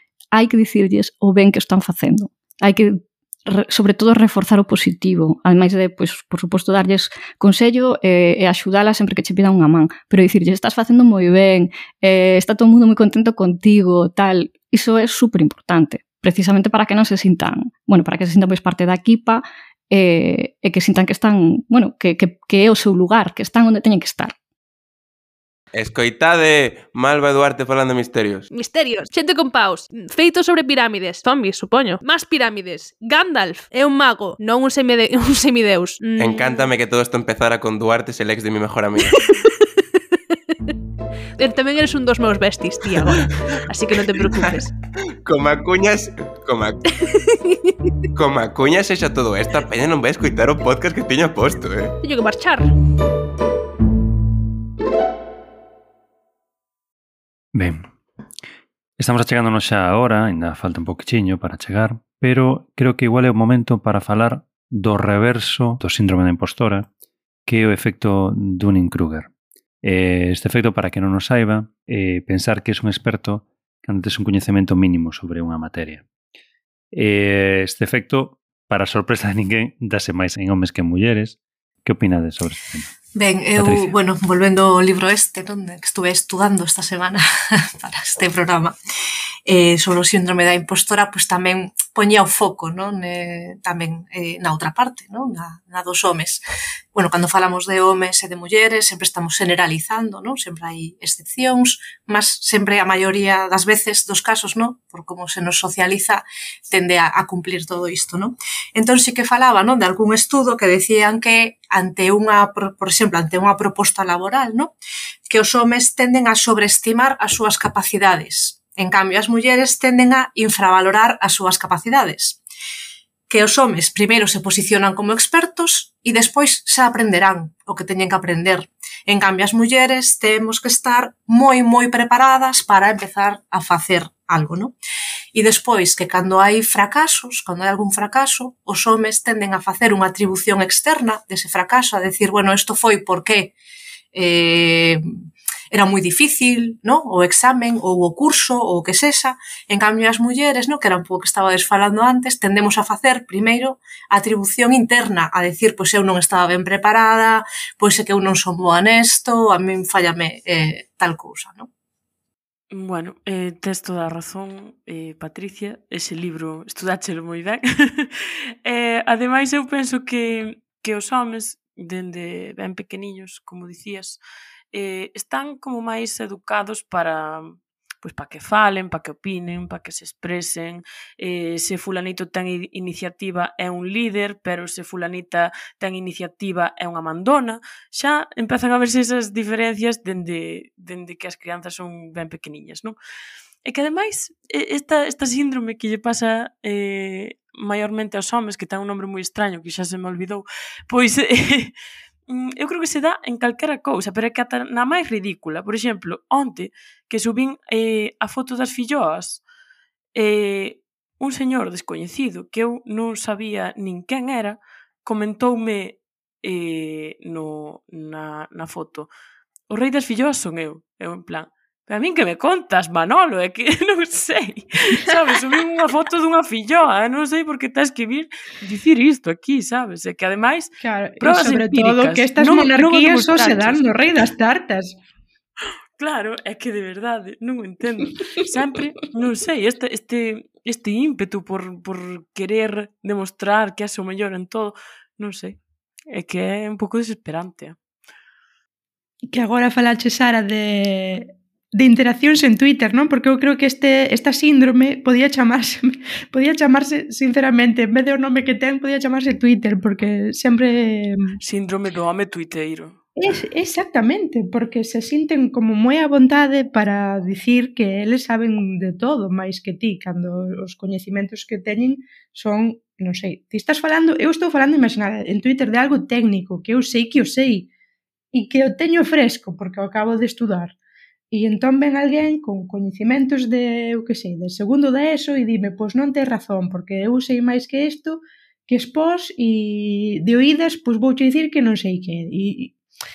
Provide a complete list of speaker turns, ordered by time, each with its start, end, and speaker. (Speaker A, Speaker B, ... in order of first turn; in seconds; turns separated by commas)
Speaker A: 0.3-24.3, Speaker B: 25.7-28.5, Speaker C: 28.5-36.7, Speaker B: 36.2-39.2, Speaker C: 41.4-44.7, Speaker B: 45.2-46.8, Speaker B: 48.1-51.9, Speaker C: 52.0-52.7, Speaker D: 57.5-57.8, Speaker D: 59.0-66.9, Speaker D: 67.5-69.3, Speaker D: 69.8-76.0, Speaker D: 76.9-82.9, Speaker E: 83.1-88.8, Speaker D: 83.6-83.9, Speaker E: 89.5-96.4, Speaker E: 96.9-114.7, Speaker E: 115.3-122.4, Speaker E: 123.3-134.7, Speaker E: 135.3-143.5, Speaker E: 144.1-145.1, Speaker E: 145.7-161.7, Speaker F: 162.7-174.2, Speaker F: 174.7-192.9, Speaker F: 193.6-201.7, Speaker F: 202.3-209.4, Speaker F: 210.1-219.1, Speaker F: 219.7-233.8, Speaker G: 230.8-234.9, Speaker F: 236.0-245.6, Speaker F: 246.1-247.8, Speaker G: 249.3-261.4, Speaker F: 261.4-263.0, Speaker G: 263.2-277.7, Speaker G: 278.3-280.7, Speaker G: 281.3-292.7